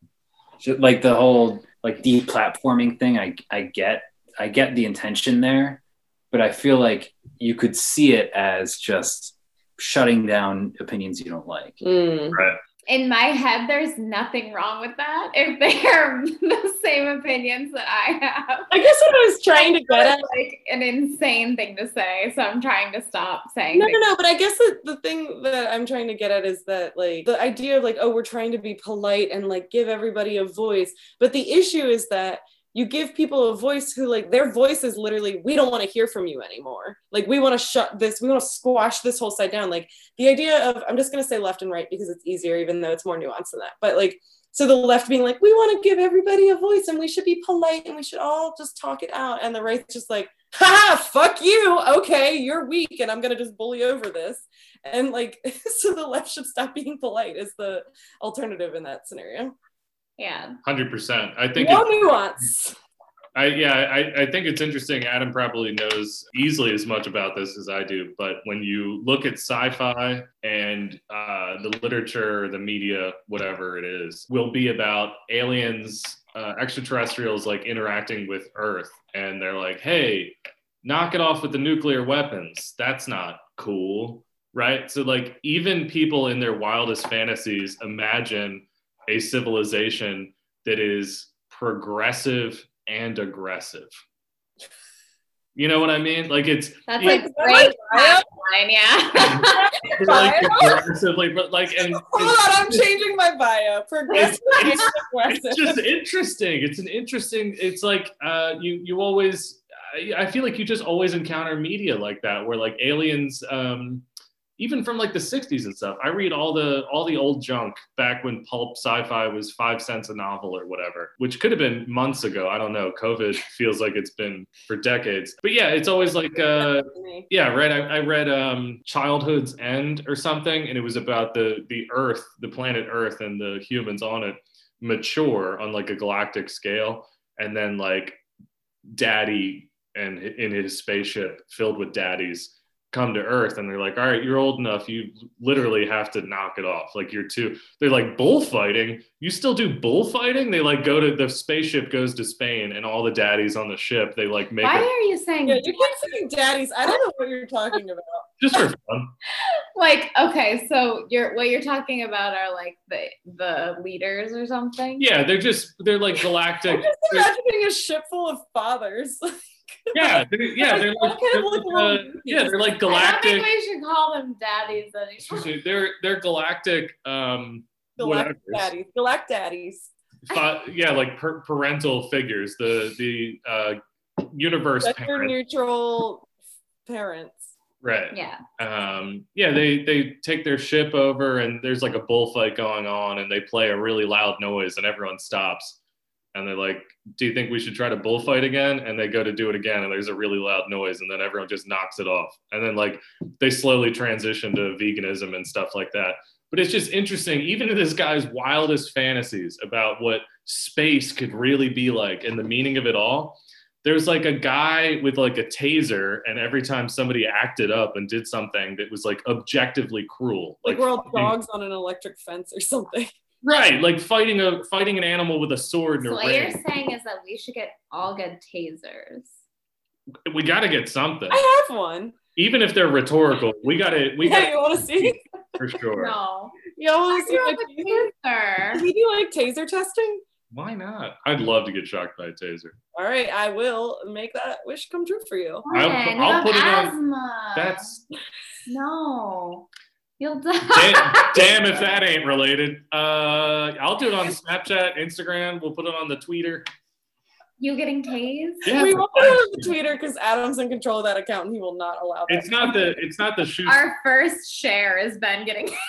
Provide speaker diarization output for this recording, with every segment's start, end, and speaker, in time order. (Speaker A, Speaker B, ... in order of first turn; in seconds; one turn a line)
Speaker A: 0.6-11.8
Speaker B: 11.8-12.4
Speaker C: 12.3-12.6
Speaker D: 12.9-18.8
Speaker B: 18.7-20.3
Speaker D: 19.5-24.0
Speaker B: 23.7-59.5
Speaker D: 60.2-60.6
Speaker C: 60.6-62.2
Speaker B: 61.5-62.8
Speaker C: 63.3-93.9
Speaker C: 95.5-97.3
Speaker D: 96.9-100.0
Speaker B: 97.0-98.2
Speaker C: 99.3-102.9
Speaker B: 99.5-100.8
Speaker B: 101.9-105.8
Speaker C: 104.1-114.0
Speaker C: 114.6-138.2
Speaker B: 126.6-127.3
Speaker C: 138.9-154.9
Speaker D: 154.6-156.1
Speaker B: 155.4-158.3
Speaker C: 158.4-159.1
Speaker D: 159.4-165.1
Speaker C: 165.0-167.3
Speaker B: 166.7-169.3
Speaker B: 169.8-172.6
Speaker C: 169.9-173.5
Speaker D: 172.8-175.5
Speaker C: 175.3-178.7
Speaker B: 178.0-179.9
Speaker C: 180.3-185.3
Speaker B: 184.8-186.2
Speaker B: 186.8-187.4
Speaker C: 187.8-195.8
Speaker D: 188.1-188.4
Speaker C: 196.3-221.3
Speaker B: 220.6-223.1
Speaker C: 223.4-226.6
Speaker D: 226.0-229.3
Speaker C: 230.2-231.4
Speaker B: 231.3-232.2
Speaker C: 232.3-236.2
Speaker B: 234.2-235.2
Speaker D: 236.0-238.8
Speaker B: 236.7-238.1
Speaker B: 238.7-240.2
Speaker C: 240.5-242.8
Speaker B: 242.9-245.7
Speaker D: 245.6-247.9
Speaker C: 245.7-246.9
Speaker C: 247.5-248.0
Speaker D: 248.7-249.7
Speaker D: 250.2-251.5
Speaker C: 250.7-256.6
Speaker D: 257.6-258.7
Speaker C: 258.6-259.8
Speaker B: 258.7-263.0
Speaker C: 262.3-263.8
Speaker D: 263.6-265.8